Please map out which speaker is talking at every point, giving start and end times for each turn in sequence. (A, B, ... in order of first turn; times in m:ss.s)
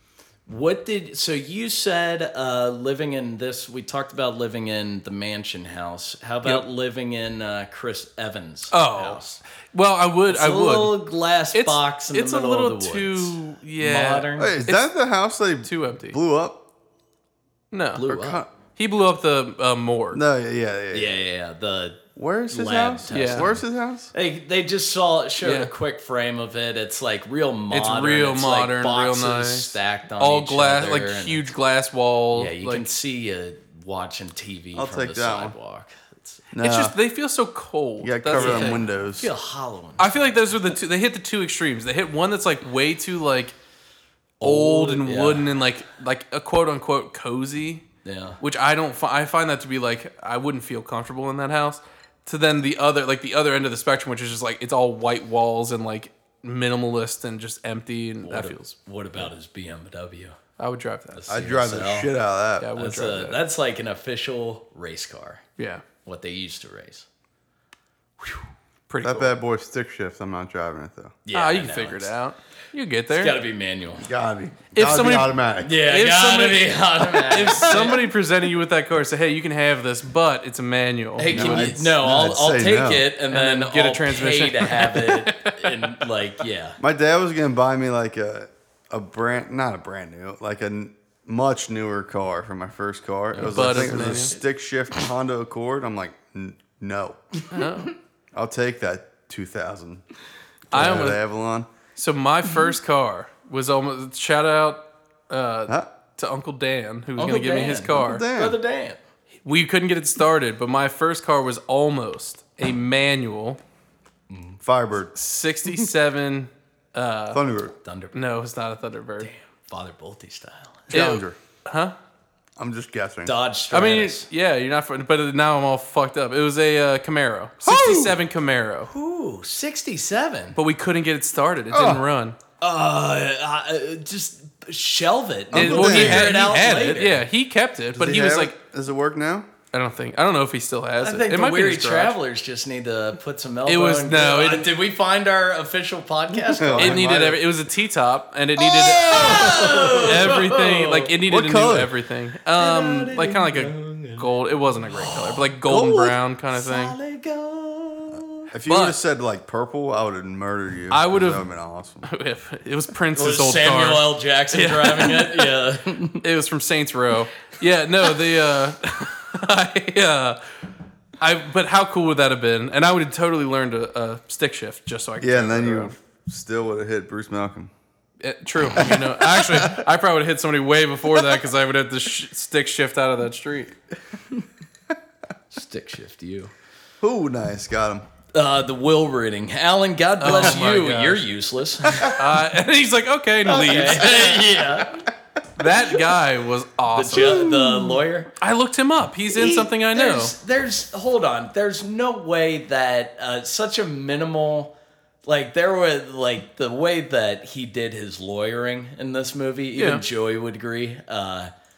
0:00.5-0:09.4 A
0:08.7-0:11.0 B
0:10.3-0:14.5 A
0:11.5-0:14.9 B
0:14.4-0:16.6 C
0:15.6-0:16.2 B
0:17.7-0:18.1 B
0:17.9-0:18.4 A
0:18.1-0:18.5 C
0:18.8-0:20.2 B
0:20.1-0:21.2 C
0:20.9-0:31.5 A
0:22.2-0:24.1 C
0:23.1-0:23.5 B
0:25.4-0:25.7 B
0:27.7-0:32.9 B
0:32.3-0:36.4 A
0:34.8-0:35.6 C
0:36.5-0:37.0 C
0:36.6-0:38.8 B
0:38.0-0:39.3 C
0:38.3-0:40.2 A
0:40.0-0:43.6 B
0:44.4-0:45.5 A
0:44.4-0:47.8 B
0:48.0-0:48.4 A
0:48.4-0:58.8 B
0:58.2-1:00.4 A
1:00.6-1:01.2 B
1:01.1-1:02.1 A
1:01.3-1:02.7 C
1:02.6-1:03.4 B
1:02.8-1:05.4 A
1:05.6-1:05.8 B
1:06.0-1:07.1 A
1:08.9-1:09.3 B
1:09.0-1:11.2 C
1:11.3-1:12.1 A
1:11.3-1:13.4 B
1:13.1-1:14.1 A
1:14.0-1:15.8 C
1:14.7-1:21.8 B
1:15.6-1:18.0 A
1:21.2-1:26.8 A
1:21.3-1:23.1 C
1:23.3-1:26.1 B
1:26.8-1:37.2 C
1:33.3-1:34.4 A
1:33.4-1:34.4 B
1:37.5-1:37.9 B
1:38.3-1:40.0 C
1:40.7-1:41.2 B
1:40.7-1:41.7 C
1:42.0-1:48.3 B
1:47.2-1:49.0 A
1:47.8-1:48.6 C
1:49.4-1:53.6 B
1:54.3-1:54.6 A
1:54.6-1:55.1 C
1:55.2-1:57.4 B
1:57.3-1:57.7 C
1:57.8-1:58.2 A
1:58.1-1:59.3 B
1:59.2-2:00.9 A
2:00.9-2:01.4 C
2:00.9-2:01.9 B
2:02.6-2:03.3 C
2:03.2-2:04.3 A
2:03.7-2:08.9 B
2:07.6-2:08.2 C
2:08.9-2:10.6 A
2:10.6-2:12.4 B
2:11.7-2:12.0 C
2:12.6-2:17.2 A
2:15.5-2:16.4 C
2:15.5-2:18.6 B
2:17.9-2:19.5 C
2:19.7-2:22.2 B
2:21.0-2:27.1 A
2:23.7-2:24.7 B
2:26.5-2:27.4 C
2:26.8-2:37.0 B
2:28.6-2:30.4 C
2:28.8-2:31.1 A
2:31.3-2:31.9 C
2:32.6-2:34.3 A
2:34.9-2:35.4 A
2:35.7-2:36.1 C
2:36.5-2:38.5 A
2:38.5-2:42.1 C
2:38.7-2:39.0 B
2:40.9-2:41.4 B
2:42.0-2:45.6 B
2:43.2-2:46.2 A
2:46.2-2:50.4 B
2:51.2-2:56.0 B
2:55.2-2:57.7 C
2:58.2-3:03.7 B
2:58.8-2:59.8 C
3:05.5-3:06.5 A
3:07.0-3:08.0 C
3:08.3-3:12.2 A
3:10.2-3:11.2 B
3:12.0-3:14.7 B
3:13.4-3:15.1 A
3:15.6-3:17.4 B
3:17.0-3:18.3 A
3:17.1-3:18.0 C
3:18.4-3:20.3 B
3:19.3-3:24.7 A
3:25.3-3:31.5 A
3:29.8-3:30.0 B